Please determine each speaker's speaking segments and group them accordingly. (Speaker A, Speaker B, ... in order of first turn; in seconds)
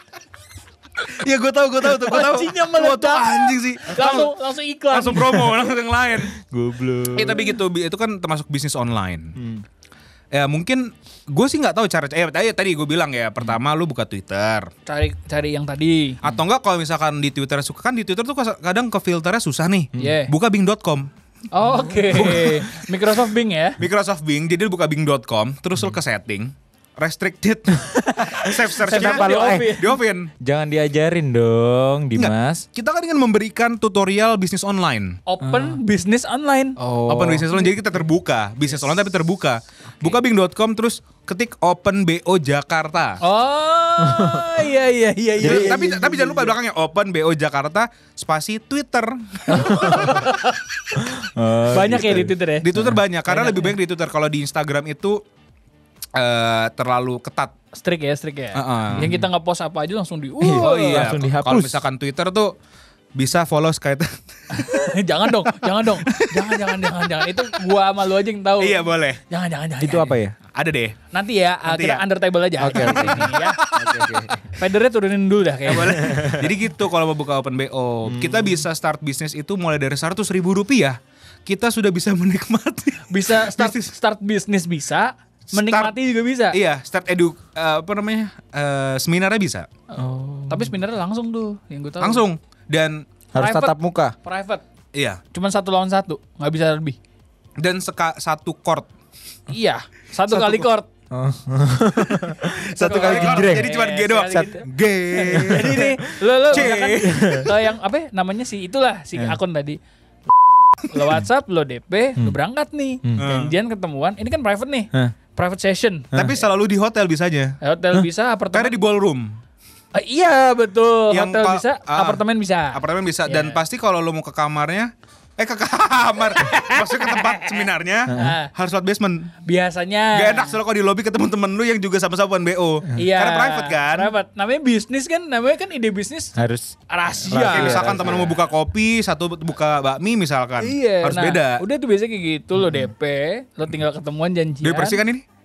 Speaker A: 1.0-4.3, 4.9-6.3, 7.1-9.3, 10.3-14.7, 16.2-21.1, 22.1-22.9, 23.8-30.3, 32.2-35.2, 37.1-43.2, 45.4-50.3, 51.8-55.2, 56.2-57.5, 58.5-59.2, 60.5-62.5, 63.2-64.1, 66.1-66.8, 68.6-69.2, 70.5-71.0, 71.7-72.0, 72.7-74.1, 75.7-83.8, 85.5-86.0, 86.5-89.7, 92.0-93.1, 94.9-95.2, 97.6-98.9, 102.1-105.8, 106.5-107.5, 113.2-113.6, 116.2-117.6, 118.5-119.4, 121.1-129.3, 130.1-134.1, 137.5-141.6, 144.6-145.2
Speaker B: 1.9-5.4, 14.9-16.2, 20.0-20.3, 21.5-23.8, 28.4-30.0, 35.3-36.8, 43.2-45.8, 49.5-50.5, 51.7-52.7, 53.3-53.8, 57.8-61.2, 64.5-70.1, 71.1-73.6, 74.6-76.2, 83.1-86.6, 89.9-92.2, 93.4-94.6, 95.3-97.0, 99.5-100.9, 102.8-104.6, 105.2-109.8, 110.9-116.3, 117.6-118.8, 119.9-123.6, 126.4-128.5, 129.4-130.6, 133.0-136.3, 136.9-138.2, 140.6-145.0
Speaker C: 5.1-5.7, 6.3-7.6, 9.4-9.6, 28.8-32.7, 35.4-35.8, 36.8-37.5, 44.0-44.5, 45.4-46.5, 49.5-50.2, 51.0-53.0, 59.0-59.3, 60.4-61.8, 69.8-70.4, 72.6-74.6, 76.0-76.3, 78.1-78.6, 90.0-90.8, 93.3-94.2, 100.3-103.7, 104.3-104.6, 105.2-107.6, 116.1-116.4, 128.1-128.3, 136.4-138.4